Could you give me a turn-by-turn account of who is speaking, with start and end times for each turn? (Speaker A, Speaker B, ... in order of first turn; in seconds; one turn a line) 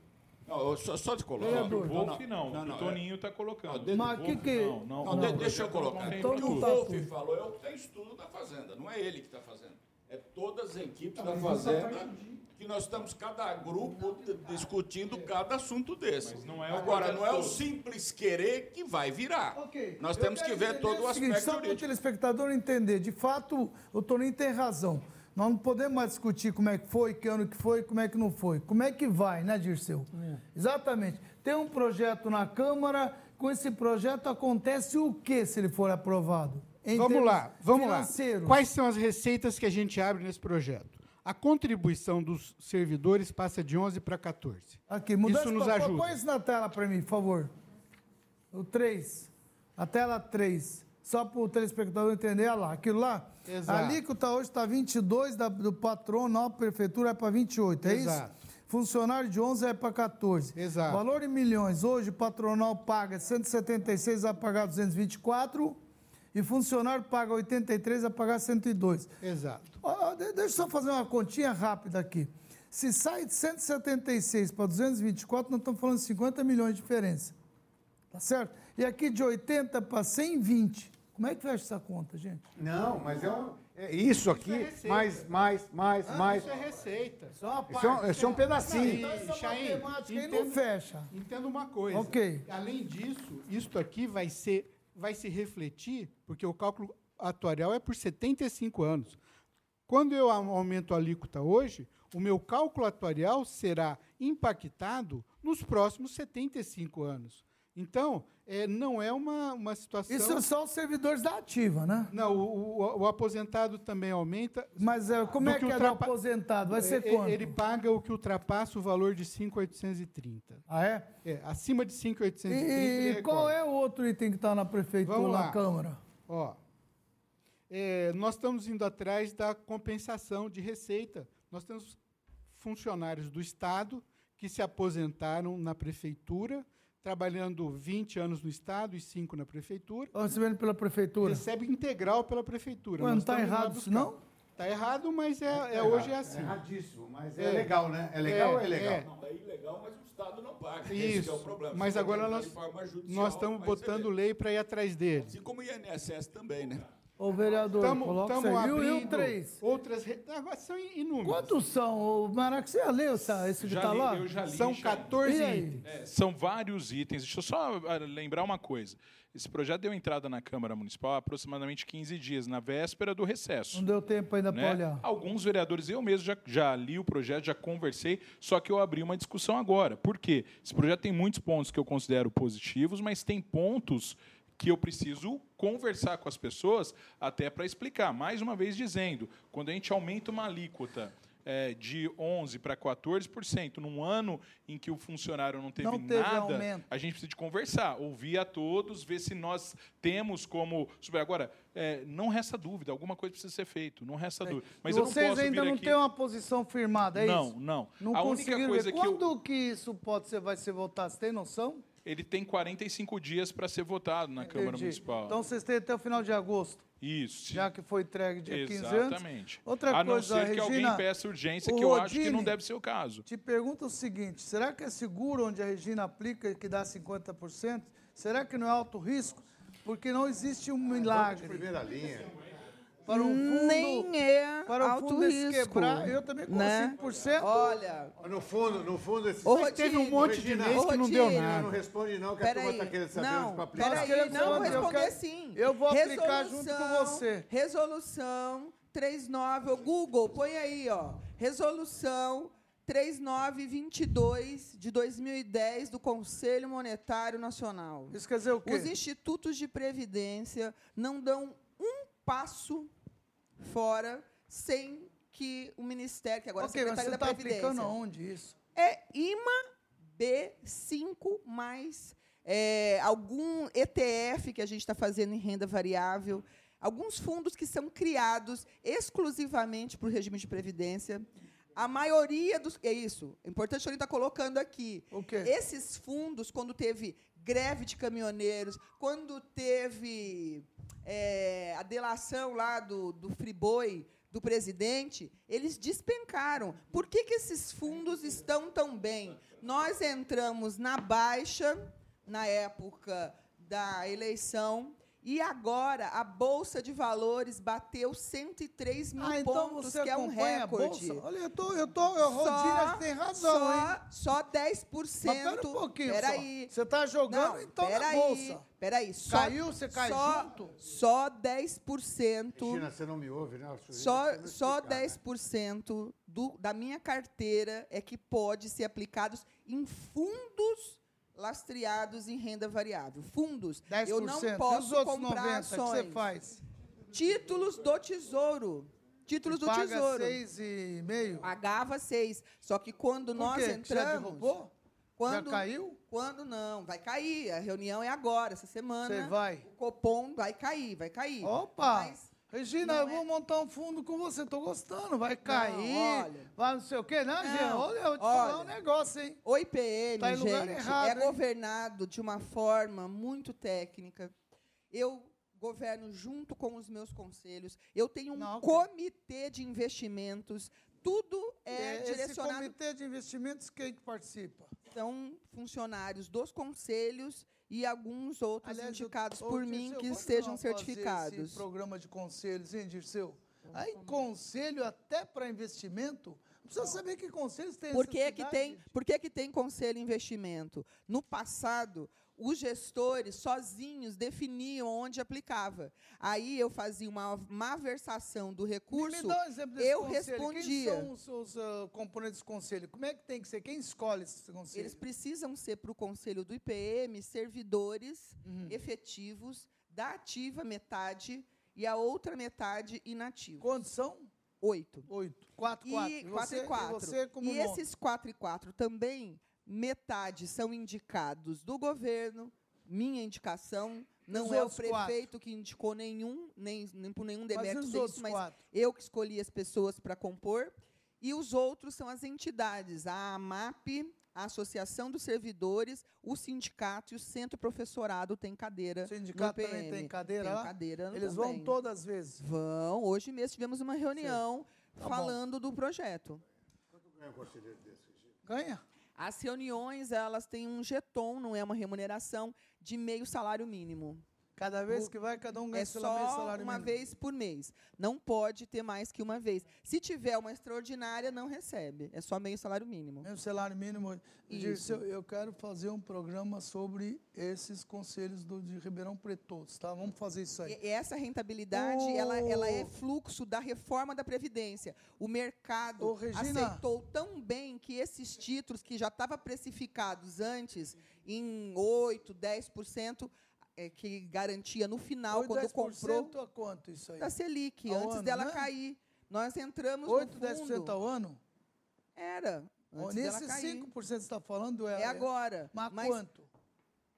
Speaker A: 0.5-3.0
Speaker B: 1.4-2.2
Speaker C: 1.4-6.8
Speaker A: 3.7-4.5
Speaker B: 3.9-7.1
Speaker A: 5.0-21.9
Speaker B: 11.2-12.4
Speaker D: 11.4-11.9
Speaker C: 16.2-17.6
Speaker B: 19.5-38.6
Speaker D: 36.9-46.1
Speaker B: 44.9-47.5
Speaker B: 48.5-65.8
Speaker D: 53.5-54.0
Speaker D: 57.8-58.3
Speaker D: 60.5-61.0
Speaker B: 66.3-69.1
Speaker D: 69.2-69.8
Speaker B: 69.8-77.3
Speaker B: 78.1-82.5
Speaker E: 82.6-86.8
Speaker D: 84.2-85.2
Speaker D: 86.1-99.2
Speaker B: 87.4-91.1
Speaker E: 87.7-89.0
Speaker B: 91.9-92.5
Speaker D: 99.9-110.5
Speaker B: 110.1-112.1
Speaker D: 112.1-116.1
Speaker B: 114.8-117.6
Speaker D: 116.7-120.6
Speaker B: 120.7-121.1
Speaker D: 121.2-123.5
Speaker B: 122.5-126.0
Speaker D: 125.0-125.6
Speaker D: 126.3-126.6
Speaker D: 127.7-140.1
Speaker B: 140.1-141.4
Speaker D: 141.2-146.6
Speaker B: 143.0-144.2
Speaker E: 145.5-149.0
Speaker D: 147.4-149.1
Speaker A: 149.0-154.1
Speaker D: 150.9-155.4
Speaker A: 155.2-156.9
Speaker B: 157.2-159.6
Speaker D: 157.8-161.6
Speaker B: 161.2-164.4
Speaker C: 163.6-165.2
Speaker D: 164.4-165.8
Speaker B: 165.2-165.8
Speaker C: 165.8-173.9
Speaker B: 173.7-175.0
Speaker C: 174.5-206.0
Speaker B: 195.8-196.9
Speaker B: 204.4-211.8
Speaker C: 207.1-209.2
Speaker C: 212.0-215.4
Speaker B: 214.4-216.9
Speaker C: 217.0-217.7
Speaker B: 217.5-221.1
Speaker C: 218.4-223.2
Speaker B: 221.6-222.6
Speaker B: 223.3-231.7
Speaker E: 230.9-232.4
Speaker B: 233.1-234.1
Speaker F: 233.1-238.1
Speaker B: 234.7-237.8
Speaker E: 238.2-245.0
Speaker F: 239.4-241.7
Speaker D: 239.6-241.8
Speaker F: 242.4-262.9
Speaker B: 243.7-247.5
Speaker B: 258.1-258.9
Speaker F: 263.6-267.9
Speaker B: 266.6-268.6
Speaker F: 268.8-269.6
Speaker F: 270.2-311.2
Speaker B: 285.1-285.5
Speaker B: 309.2-314.0
Speaker F: 312.2-316.7
Speaker B: 315.2-318.6
Speaker F: 317.3-322.9
Speaker B: 319.3-320.7
Speaker E: 322.6-325.2
Speaker F: 323.9-336.3
Speaker B: 333.9-336.6
Speaker F: 337.1-340.4
Speaker B: 339.5-341.5
Speaker F: 341.4-344.6
Speaker B: 343.4-344.7
Speaker F: 345.2-353.2
Speaker B: 345.3-346.0
Speaker B: 349.1-349.7
Speaker B: 351.4-359.4
Speaker F: 355.4-356.5
Speaker F: 357.4-358.8
Speaker F: 359.4-364.3
Speaker B: 360.2-361.4
Speaker F: 364.9-372.8
Speaker B: 368.4-368.9
Speaker B: 371.7-374.7
Speaker F: 374.9-381.6
Speaker B: 378.6-388.9
Speaker F: 387.9-401.1
Speaker B: 398.9-405.0
Speaker F: 404.7-413.7
Speaker B: 408.4-408.8
Speaker B: 413.6-414.3
Speaker F: 414.6-415.1
Speaker B: 415.1-417.8
Speaker F: 415.8-441.8
Speaker B: 424.3-425.3
Speaker B: 427.5-428.6
Speaker B: 439.1-442.4
Speaker F: 442.4-446.4
Speaker B: 445.0-445.4
Speaker E: 446.9-448.4
Speaker B: 448.5-448.8
Speaker F: 449.2-454.2
Speaker B: 454.6-456.9
Speaker F: 455.7-463.3
Speaker B: 463.2-470.8
Speaker F: 464.5-465.0
Speaker F: 470.6-486.4
Speaker B: 471.7-472.9
Speaker B: 476.0-476.8
Speaker B: 485.3-487.3
Speaker F: 487.2-490.9
Speaker B: 487.9-488.7
Speaker B: 490.1-491.4
Speaker F: 492.2-493.9
Speaker B: 493.0-496.5
Speaker F: 494.9-496.2